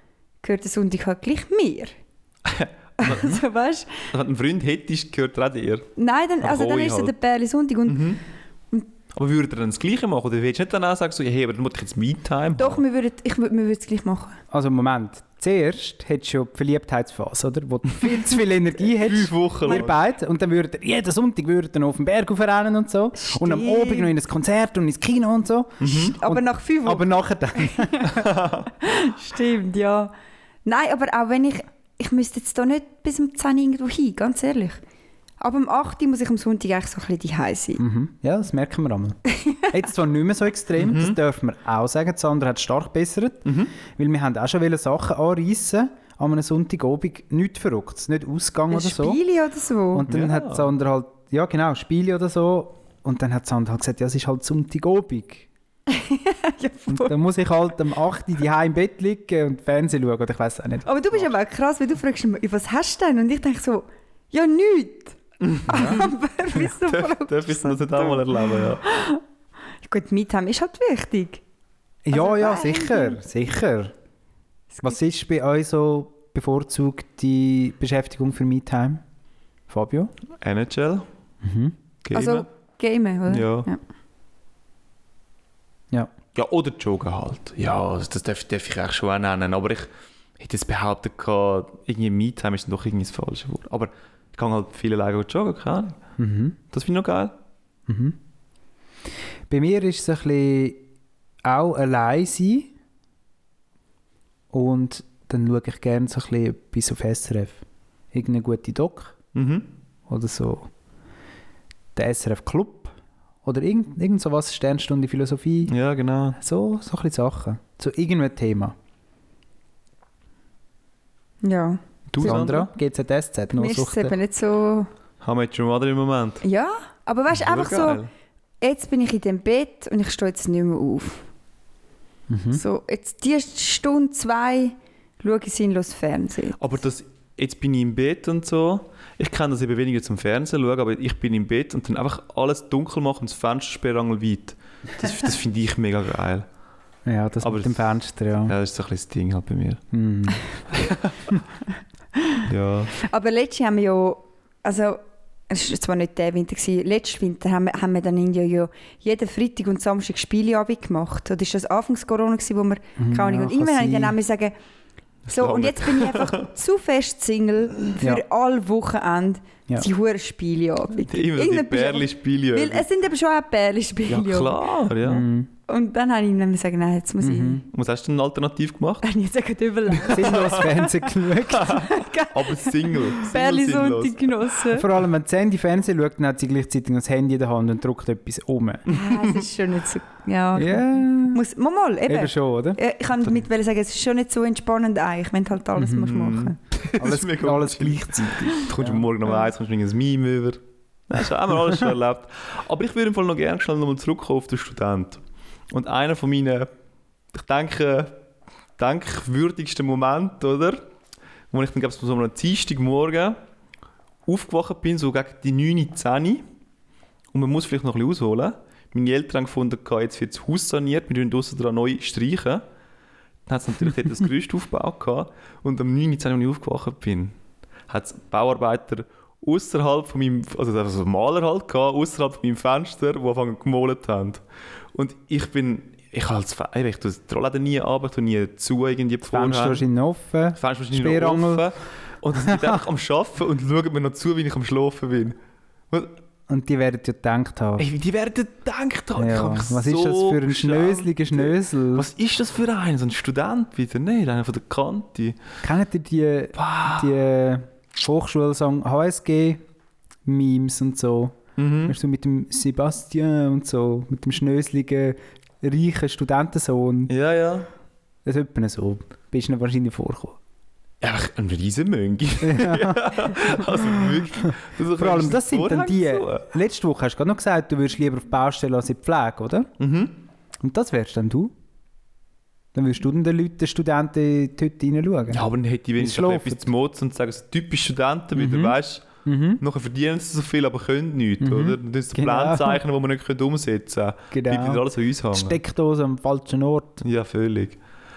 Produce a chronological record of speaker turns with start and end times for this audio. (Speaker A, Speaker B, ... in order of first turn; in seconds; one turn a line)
Speaker A: 0.4-1.9
Speaker B: 2.5-3.4
Speaker A: 3.0-4.0
Speaker B: 4.1-7.1
Speaker A: 6.0-8.1
Speaker B: 7.9-8.2
Speaker B: 9.1-12.8
Speaker A: 12.6-14.4
Speaker C: 14.5-28.2
Speaker B: 18.9-20.0
Speaker A: 23.2-24.1
Speaker B: 25.8-26.1
Speaker A: 25.9-28.3
Speaker B: 28.1-28.7
Speaker A: 28.8-30.1
Speaker A: 30.6-34.8
Speaker A: 35.4-37.8
Speaker C: 37.8-49.2
Speaker A: 39.4-39.7
Speaker B: 40.8-41.2
Speaker B: 43.5-43.7
Speaker A: 48.7-50.1
Speaker C: 49.9-55.5
Speaker B: 50.1-50.7
Speaker A: 55.9-57.2
Speaker C: 56.9-60.9
Speaker A: 60.9-69.2
Speaker B: 65.4-68.8
Speaker C: 65.7-66.0
Speaker A: 69.8-71.4
Speaker C: 72.0-73.9
Speaker A: 72.1-73.2
Speaker C: 74.8-79.0
Speaker C: 79.7-80.1
Speaker B: 80.4-81.1
Speaker C: 81.4-81.7
Speaker B: 82.0-82.5
Speaker A: 82.1-83.8
Speaker B: 83.3-83.7
Speaker B: 86.3-96.0
Speaker C: 96.2-96.6
Speaker B: 96.7-97.3
Speaker C: 97.9-98.2
Speaker C: 99.5-100.8
Speaker C: 101.5-102.7
Speaker C: 104.5-107.6
Speaker C: 108.1-109.2
Speaker B: 109.3-109.7
Speaker C: 110.1-110.7
Speaker C: 112.0-112.9
Speaker C: 113.4-115.7
Speaker B: 115.7-116.4
Speaker C: 116.4-118.8
Speaker A: 121.4-122.5
Speaker B: 122.1-122.7
Speaker C: 122.2-124.2
Speaker A: 123.5-124.9
Speaker B: 125.2-126.4
Speaker A: 126.4-128.0
Speaker B: 127.3-128.1
Speaker A: 128.6-131.2
Speaker C: 132.3-132.6
Speaker A: 132.5-136.8
Speaker B: 136.6-146.5
Speaker C: 147.1-148.5
Speaker B: 147.4-147.9
Speaker B: 148.5-149.8
Speaker C: 149.9-150.4
Speaker B: 150.7-151.4
Speaker B: 152.4-152.9
Speaker A: 153.0-164.5
Speaker C: 163.0-164.2
Speaker B: 165.3-166.4
Speaker A: 165.3-174.6
Speaker B: 171.0-172.9
Speaker B: 174.1-175.3
Speaker C: 175.0-175.5
Speaker A: 175.7-177.6
Speaker C: 177.2-177.7
Speaker B: 177.7-179.1
Speaker A: 179.0-180.9
Speaker B: 180.1-180.8
Speaker C: 180.1-181.8
Speaker B: 181.5-184.5
Speaker A: 181.6-184.9
Speaker C: 184.7-188.9
Speaker A: 188.9-196.6
Speaker C: 190.6-191.4
Speaker C: 192.1-192.8
Speaker C: 195.8-196.2
Speaker B: 196.0-206.7
Speaker C: 197.0-199.1
Speaker B: 207.3-208.2
Speaker B: 208.8-210.8
Speaker B: 211.5-213.4
Speaker B: 214.3-216.4
Speaker B: 217.3-222.6
Speaker B: 223.5-227.3
Speaker B: 227.9-234.4
Speaker B: 234.9-239.9
Speaker C: 239.3-241.7
Speaker B: 240.6-245.3
Speaker C: 242.4-242.8
Speaker C: 246.5-247.9
Speaker B: 247.8-255.4
Speaker C: 249.2-252.1
Speaker C: 255.6-259.6
Speaker B: 256.6-257.2
Speaker C: 260.2-267.1
Speaker B: 261.6-262.0
Speaker B: 267.1-267.7
Speaker C: 268.2-270.4
Speaker B: 271.0-276.5
Speaker C: 272.4-279.7
Speaker B: 279.8-280.1
Speaker C: 280.6-281.5
Speaker C: 282.8-286.7
Speaker B: 285.3-289.1
Speaker C: 288.4-289.6
Speaker B: 289.6-295.6
Speaker C: 291.4-292.8
Speaker C: 294.3-297.0
Speaker B: 297.0-297.8